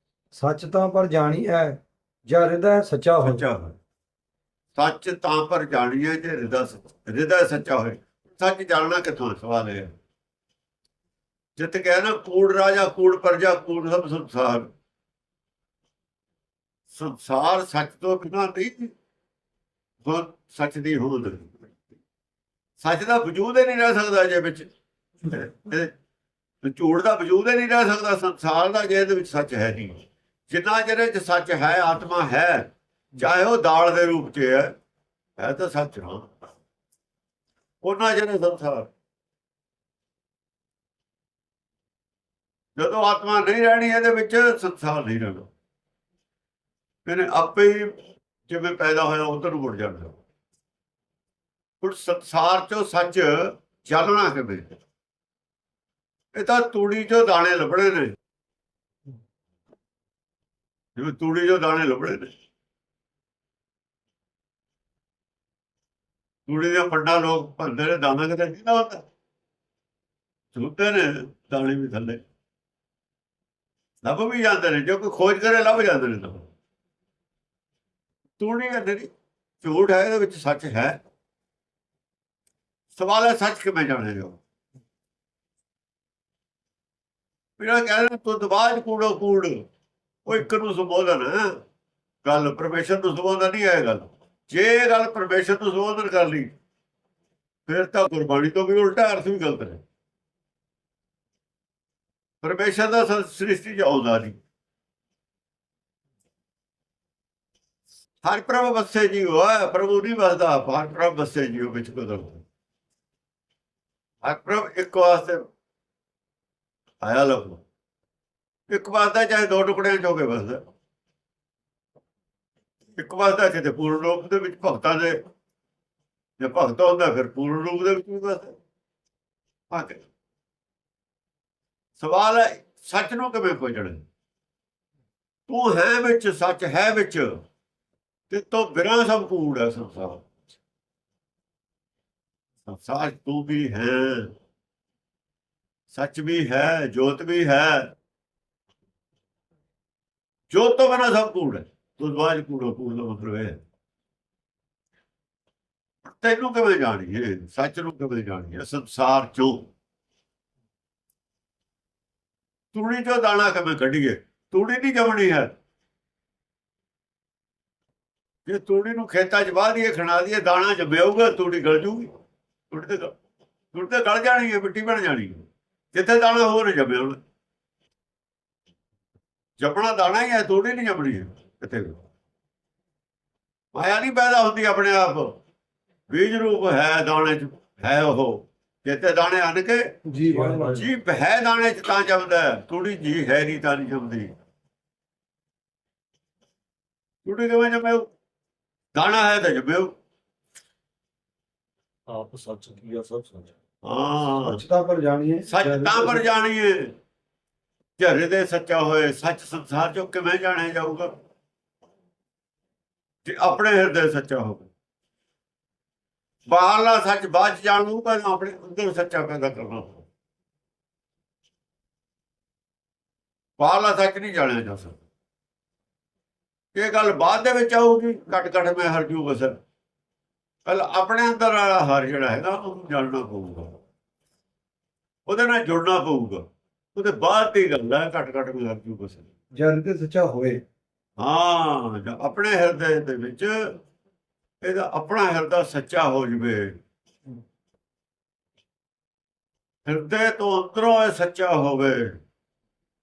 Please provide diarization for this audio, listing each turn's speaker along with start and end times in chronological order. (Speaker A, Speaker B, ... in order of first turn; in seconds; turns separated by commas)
Speaker A: 0.3-3.4, Speaker B: 3.2-3.8, Speaker B: 4.7-9.9, Speaker B: 11.6-14.7, Speaker B: 16.9-18.9, Speaker B: 20.0-21.6, Speaker B: 22.8-24.7, Speaker B: 25.2-25.9, Speaker B: 26.6-34.7, Speaker B: 35.4-36.3, Speaker B: 37.8-38.9, Speaker B: 42.8-45.5, Speaker B: 47.0-47.9, Speaker B: 48.5-50.2, Speaker B: 51.8-54.8, Speaker B: 56.3-58.1, Speaker B: 61.0-62.3, Speaker B: 66.5-69.0, Speaker B: 70.5-72.2, Speaker B: 74.0-76.5, Speaker B: 78.4-79.1, Speaker B: 79.6-81.0, Speaker B: 82.9-84.4, Speaker B: 87.6-89.6, Speaker B: 90.2-91.6, Speaker B: 92.2-96.5, Speaker B: 97.7-99.8, Speaker B: 102.4-104.4, Speaker B: 108.2-112.4, Speaker B: 114.2-115.4, Speaker B: 117.0-117.6, Speaker B: 118.7-120.6, Speaker B: 122.9-125.2, Speaker B: 126.4-128.5, Speaker B: 129.7-130.0, Speaker B: 132.0-134.0, Speaker B: 135.5-137.4, Speaker B: 138.3-140.3, Speaker B: 142.7-144.3, Speaker B: 145.9-147.9, Speaker B: 150.5-153.6, Speaker B: 156.0-159.7, Speaker B: 162.7-165.5, Speaker B: 168.4-172.1, Speaker B: 172.7-173.1, Speaker B: 173.7-177.2, Speaker B: 179.6-182.0, Speaker B: 183.7-185.3, Speaker B: 186.1-189.8, Speaker A: 190.1-190.7, Speaker C: 190.3-190.9, Speaker B: 190.7-194.3, Speaker B: 197.2-198.1, Speaker B: 198.9-199.9, Speaker C: 202.1-203.5, Speaker B: 203.8-204.6, Speaker A: 204.4-206.2, Speaker B: 205.5-206.9, Speaker B: 208.0-211.1, Speaker B: 213.2-214.7, Speaker B: 216.5-220.0, Speaker B: 223.6-225.0, Speaker B: 226.7-229.5, Speaker B: 230.7-233.8, Speaker B: 235.3-236.4, Speaker B: 236.9-239.3, Speaker A: 239.6-240.6, Speaker B: 241.2-243.7, Speaker B: 244.6-246.8, Speaker B: 249.8-252.2